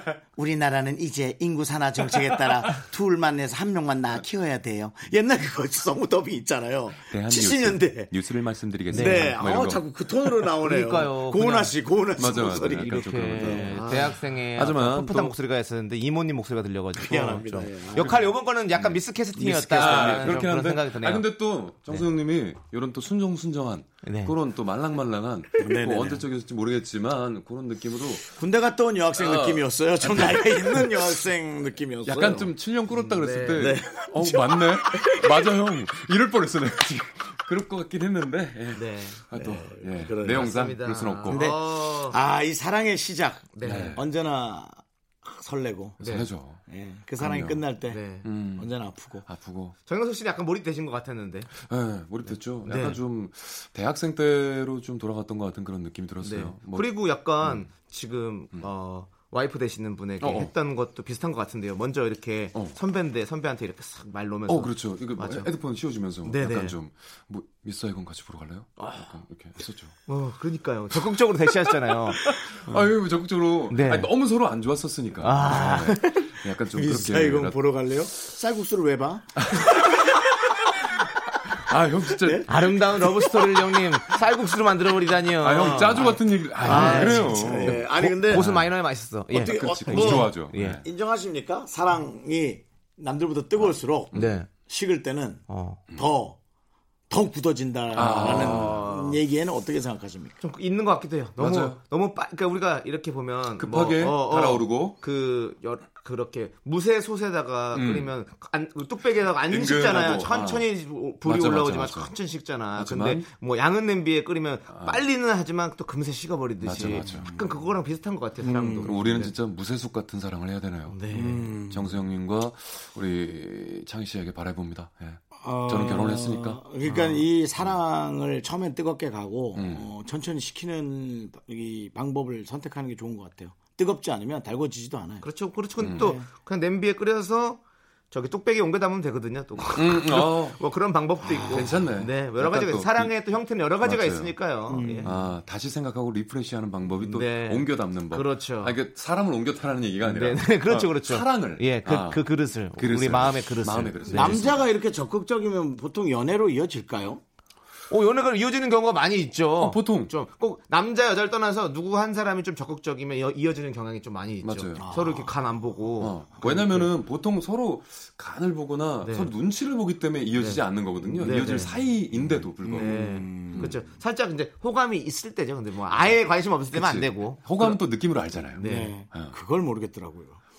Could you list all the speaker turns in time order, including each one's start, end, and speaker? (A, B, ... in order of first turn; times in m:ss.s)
0:00.3-0:08.2 A
0:07.0-0:09.8 B
0:08.9-0:09.4 C
0:08.9-0:14.2 A
0:10.6-0:11.8 C
0:12.2-0:15.4 B
0:12.4-0:21.3 C
0:17.0-0:18.2 A
0:18.0-0:18.2 B
0:19.4-0:20.4 A
0:19.6-0:28.3 B
0:24.0-0:24.4 C
0:25.6-0:26.2 A
0:28.4-0:32.5 A
0:29.2-0:30.9 B
0:32.0-0:41.5 B
0:32.9-0:33.8 C
0:33.5-0:35.5 A
0:38.7-0:39.2 C
0:39.3-0:40.5 A
0:40.3-0:42.2 C
0:41.3-0:46.0 A
0:43.6-0:44.0 C
0:43.6-0:44.0 B
0:46.0-0:46.3 C
0:46.0-0:46.6 B
0:46.7-0:48.0 A
0:47.2-0:47.6 B
0:47.9-0:48.3 C
0:48.2-0:48.7 B
0:48.6-0:49.3 A
0:49.2-0:49.8 B
0:49.9-0:51.5 C
0:51.6-0:56.9 B
0:52.6-0:53.0 C
0:56.2-1:05.5 C
0:57.4-0:57.7 B
1:00.2-1:00.5 B
1:04.5-1:09.9 B
1:06.2-1:06.8 C
1:10.1-1:12.8 C
1:12.3-1:17.6 B
1:13.7-1:14.1 C
1:15.2-1:16.1 C
1:16.2-1:20.1 A
1:21.5-1:22.6 B
1:22.1-1:22.5 A
1:22.5-1:30.8 C
1:25.4-1:28.6 B
1:26.6-1:28.6 A
1:29.3-1:30.8 B
1:29.3-1:36.4 A
1:34.1-1:34.5 C
1:35.5-1:35.8 C
1:37.1-1:40.4 A
1:37.9-1:38.9 B
1:38.0-1:39.2 C
1:40.4-1:59.3 C
1:41.4-1:41.8 B
1:43.6-1:45.0 B
1:47.7-1:48.1 B
1:49.5-1:50.7 B
1:51.2-1:52.1 B
1:52.8-1:53.3 B
1:54.7-1:55.0 B
1:56.6-1:57.3 B
1:57.0-1:57.6 A
1:58.4-1:59.1 A
1:58.8-2:01.0 B
2:00.9-2:01.6 C
2:01.1-2:02.0 A
2:01.6-2:06.6 B
2:05.4-2:15.3 A
2:06.8-2:07.2 C
2:09.6-2:09.9 B
2:15.2-2:25.2 C
2:15.8-2:16.3 A
2:15.8-2:16.1 B
2:19.7-2:20.6 B
2:21.4-2:21.7 A
2:21.4-2:23.2 B
2:23.8-2:24.4 B
2:24.7-2:25.2 A
2:25.0-2:34.7 B
2:27.0-2:28.8 C
2:30.0-2:34.6 C
2:34.1-2:37.2 A
2:37.9-2:46.9 C
2:39.6-2:40.1 B
2:44.4-2:44.9 B
2:44.8-2:45.3 A
2:46.0-2:53.8 B
2:49.0-2:49.3 C
2:50.4-2:51.8 C
2:51.2-2:53.8 A
2:52.7-2:57.7 C
2:56.7-2:59.4 B
2:58.6-2:58.9 C
2:58.6-3:00.4 A